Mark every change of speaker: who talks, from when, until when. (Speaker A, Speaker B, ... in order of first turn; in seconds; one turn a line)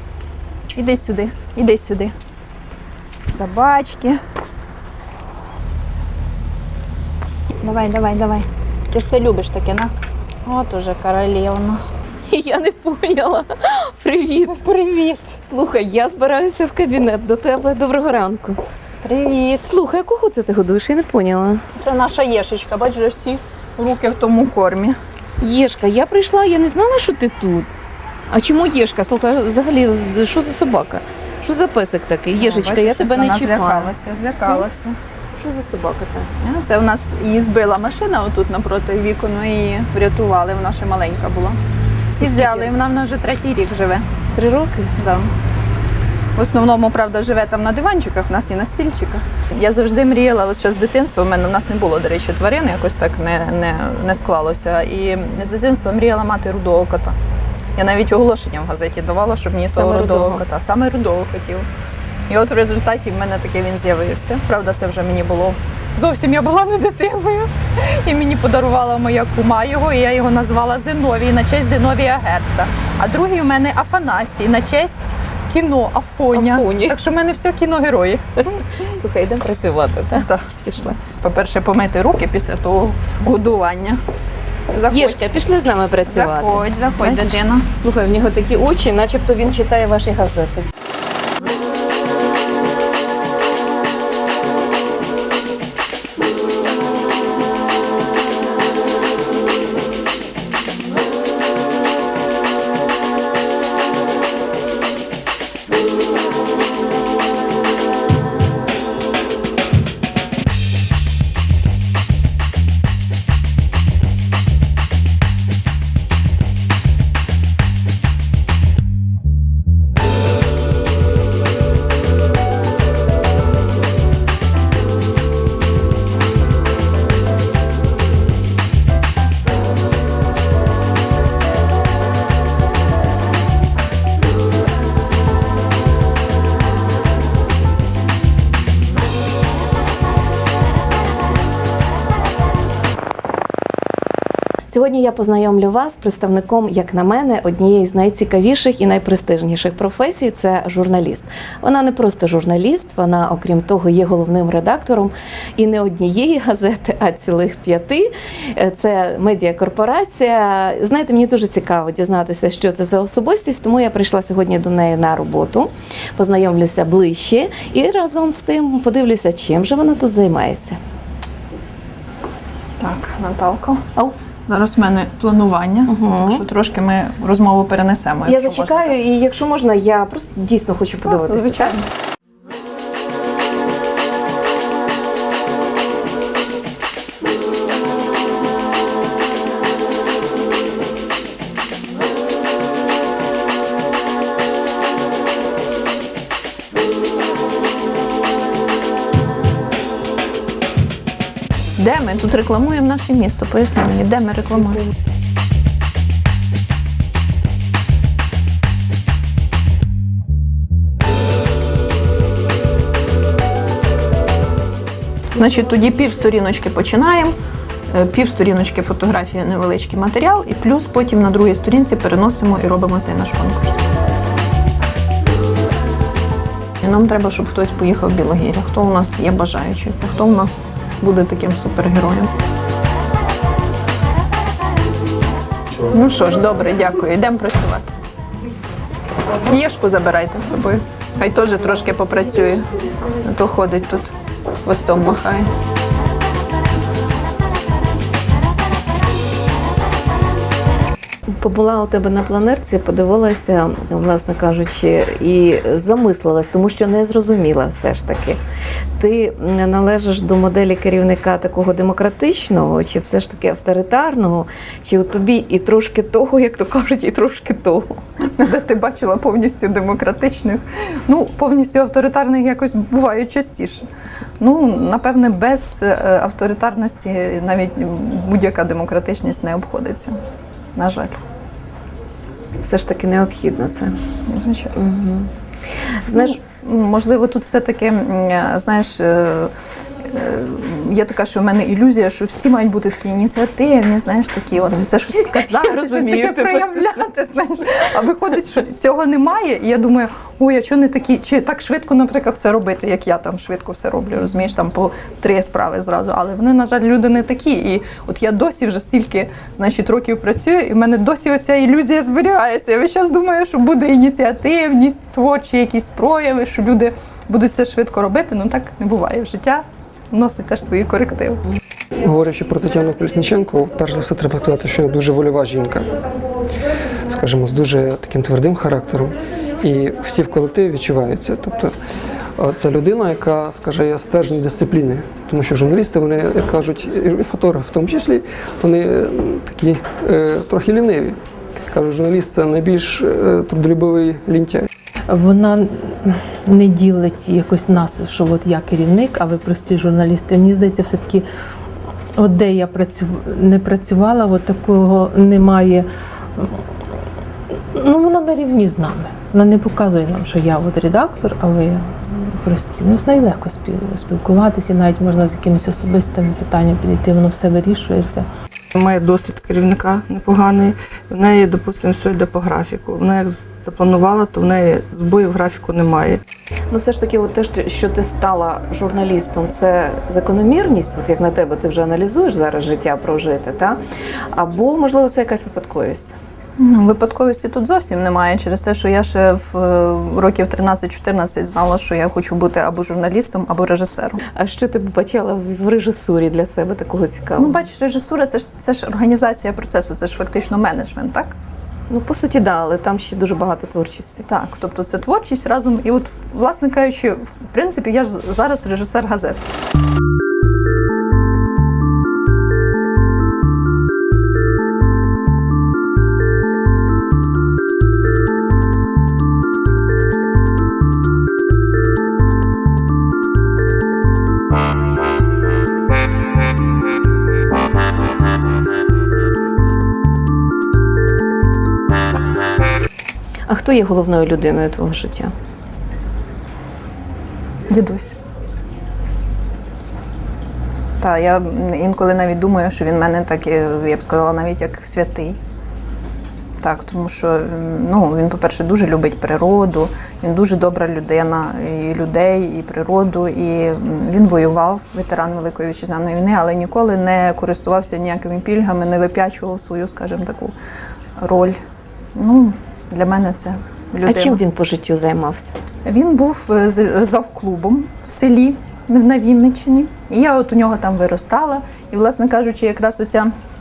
Speaker A: 0.7-2.1
Speaker A: 3.3-4.2
Speaker A: 7.6-9.9
Speaker A: 10.4-11.8
Speaker B: 12.2-14.6
Speaker A: 14.6-15.4
Speaker B: 15.4-18.6
Speaker A: 19.0-19.7
Speaker B: 19.5-21.6
Speaker A: 21.8-25.0
Speaker B: 25.4-27.7
Speaker B: 28.3-33.9
Speaker A: 32.4-35.0
Speaker B: 35.3-36.3
Speaker A: 36.4-41.6
Speaker A: 42.1-44.1
Speaker B: 42.2-42.7
Speaker B: 44.3-44.9
Speaker A: 45.0-45.3
Speaker A: 46.4-57.2
Speaker A: 57.8-61.7
Speaker B: 59.7-60.4
Speaker A: 62.3-78.3
Speaker B: 76.3-77.0
Speaker B: 78.5-81.0
Speaker A: 80.1-80.5
Speaker A: 81.0-84.0
Speaker A: 84.7-85.2
Speaker B: 84.9-90.7
Speaker A: 86.1-87.7
Speaker B: 144.7-170.8
Speaker A: 172.8-173.8
Speaker A: 174.5-178.9
Speaker B: 175.9-176.4
Speaker B: 178.2-181.7
Speaker A: 181.0-181.8
Speaker A: 201.8-204.8
Speaker A: 215.3-217.3
Speaker A: 217.9-223.8
Speaker A: 226.8-232.3
Speaker A: 235.9-237.9
Speaker A: 239.4-244.1
Speaker A: 244.6-245.5
Speaker B: 251.3-258.4
Speaker B: 259.0-268.0
Speaker A: 268.2-273.9
Speaker A: 274.4-280.2
Speaker A: 280.7-281.2
Speaker B: 282.6-283.9
Speaker A: 284.3-284.7
Speaker B: 284.7-285.3
Speaker B: 286.1-286.4
Speaker A: 286.1-289.5
Speaker A: 290.1-321.4
Speaker B: 294.7-297.1
Speaker C: 322.0-326.0
Speaker C: 327.1-331.7
Speaker C: 332.4-341.2
Speaker C: 341.7-344.7
Speaker D: 345.1-351.2
Speaker D: 352.1-356.6
Speaker D: 357.5-368.2
Speaker E: 368.7-376.2
Speaker B: 376.7-383.8
Speaker B: 384.3-386.1
Speaker A: 386.6-394.2
Speaker B: 394.3-397.7
Speaker A: 397.4-401.3
Speaker B: 401.9-404.3
Speaker A: 404.2-409.4
Speaker B: 433.5-435.3
Speaker A: 437.7-438.1
Speaker A: 441.0-445.4
Speaker A: 446.6-460.5
Speaker A: 461.2-461.6
Speaker A: 462.1-464.4
Speaker B: 464.0-465.5
Speaker A: 465.8-473.3